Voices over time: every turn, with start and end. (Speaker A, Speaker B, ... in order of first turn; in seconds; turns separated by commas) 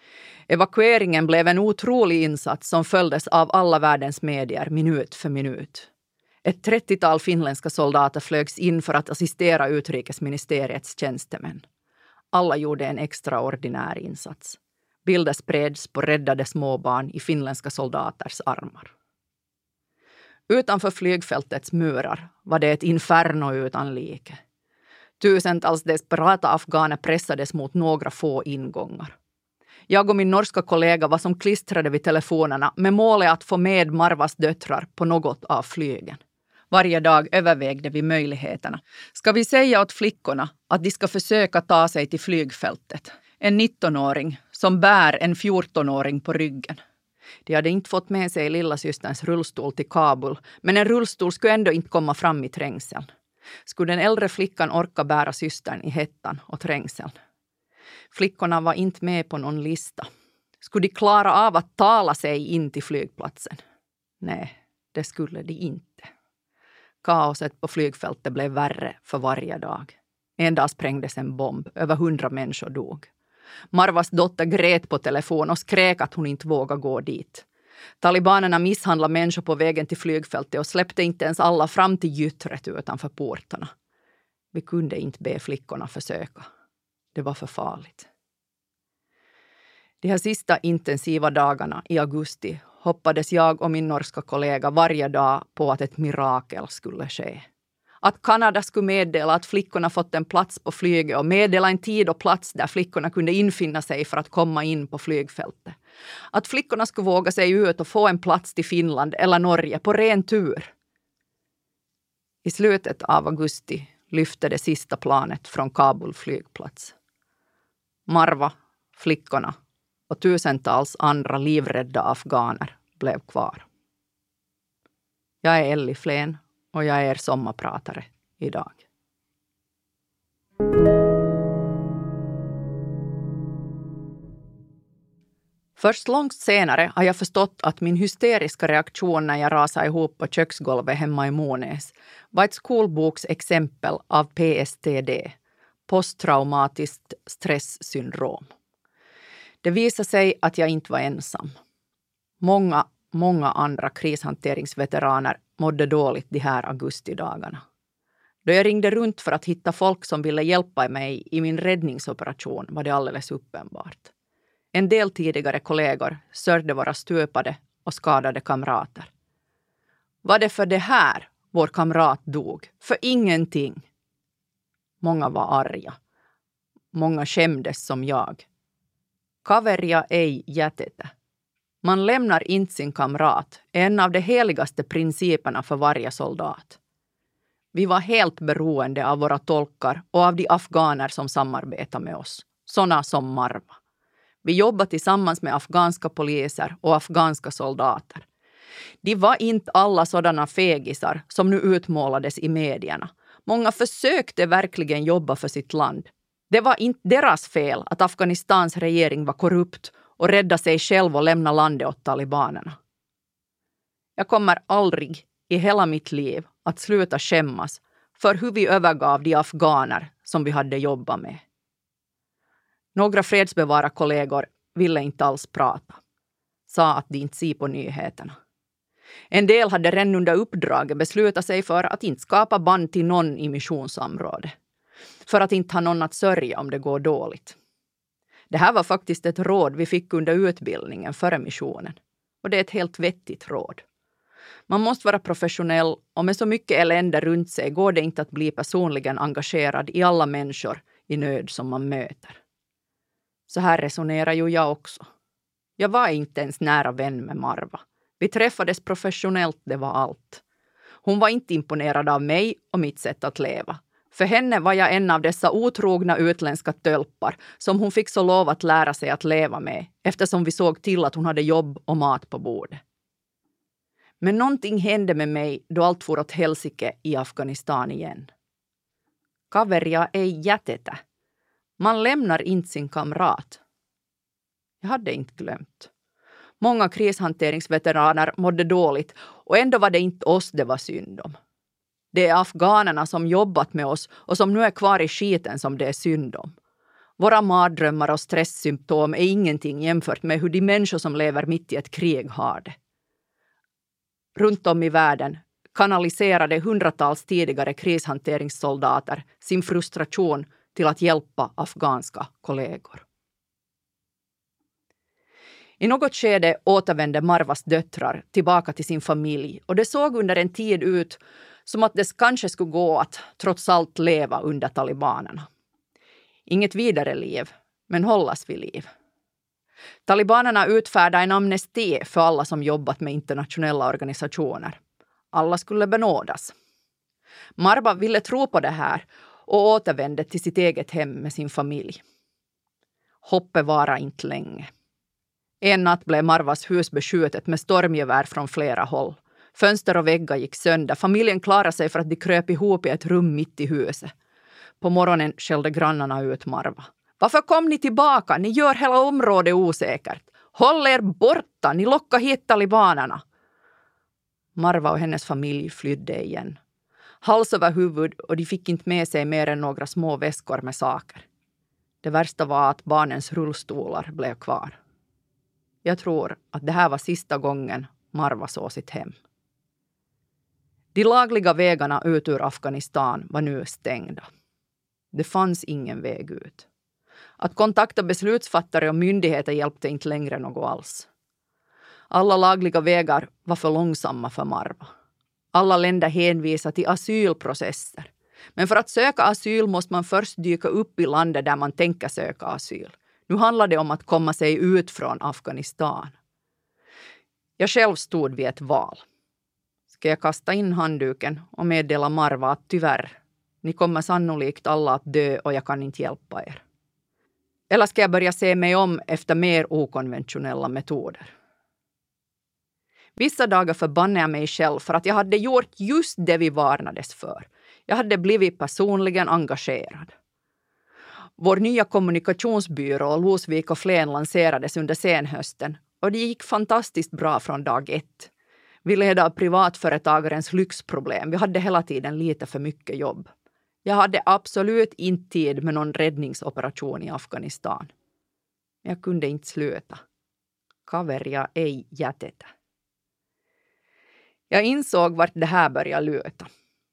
Speaker A: 0.5-5.9, Speaker A: 6.4-11.6, Speaker A: 12.3-18.9, Speaker A: 20.5-24.4, Speaker A: 25.2-29.1, Speaker A: 29.9-36.2, Speaker A: 36.7-46.8, Speaker A: 47.5-53.0, Speaker A: 53.6-57.1, Speaker A: 58.1-60.1, Speaker A: 60.6-63.6, Speaker A: 64.2-66.1, Speaker A: 67.0-73.1, Speaker A: 73.7-77.4, Speaker A: 78.0-83.7, Speaker A: 84.5-86.5, Speaker A: 87.1-88.1, Speaker A: 90.0-97.4, Speaker A: 98.0-105.8, Speaker A: 106.3-110.7, Speaker A: 112.4-116.9, Speaker A: 118.1-119.5, Speaker A: 120.1-123.7, Speaker A: 125.4-128.8, Speaker A: 135.8-145.3, Speaker A: 145.9-148.5, Speaker A: 149.6-151.5, Speaker A: 152.4-157.6, Speaker A: 158.4-164.1, Speaker A: 164.7-169.1, Speaker A: 170.2-173.8, Speaker A: 175.0-175.9, Speaker A: 176.9-178.4, Speaker A: 179.4-181.1, Speaker A: 181.8-186.8, Speaker A: 187.7-193.8, Speaker A: 194.4-198.2, Speaker A: 199.0-212.8, Speaker A: 214.2-221.4, Speaker A: 222.9-226.0, Speaker A: 226.7-228.3, Speaker A: 229.3-234.5, Speaker A: 235.2-237.6, Speaker A: 238.5-243.8, Speaker A: 244.7-252.4, Speaker A: 253.5-255.1, Speaker A: 255.8-260.4, Speaker A: 261.0-272.8, Speaker A: 274.2-278.3, Speaker A: 279.5-281.0, Speaker A: 281.8-283.6, Speaker A: 284.8-285.9, Speaker A: 286.6-291.3, Speaker A: 292.1-296.5, Speaker A: 297.2-302.7, Speaker A: 304.3-313.0, Speaker A: 315.8-325.4, Speaker A: 326.5-328.9, Speaker A: 330.1-334.8, Speaker A: 335.3-336.5, Speaker A: 337.6-342.0, Speaker A: 343.2-344.7, Speaker A: 345.6-354.1, Speaker A: 354.8-363.2, Speaker A: 364.5-366.6, Speaker A: 367.2-371.2, Speaker A: 372.0-374.8, Speaker A: 375.8-379.1, Speaker A: 380.9-384.3, Speaker A: 385.1-386.7, Speaker A: 387.4-391.1, Speaker A: 392.1-394.9, Speaker A: 395.5-406.1, Speaker A: 407.6-409.0, Speaker A: 409.9-416.6, Speaker A: 417.7-421.3, Speaker A: 423.2-430.1, Speaker A: 431.4-438.3, Speaker A: 438.8-443.3, Speaker A: 443.8-447.9, Speaker A: 448.8-450.0, Speaker A: 450.9-452.5, Speaker A: 454.5-456.5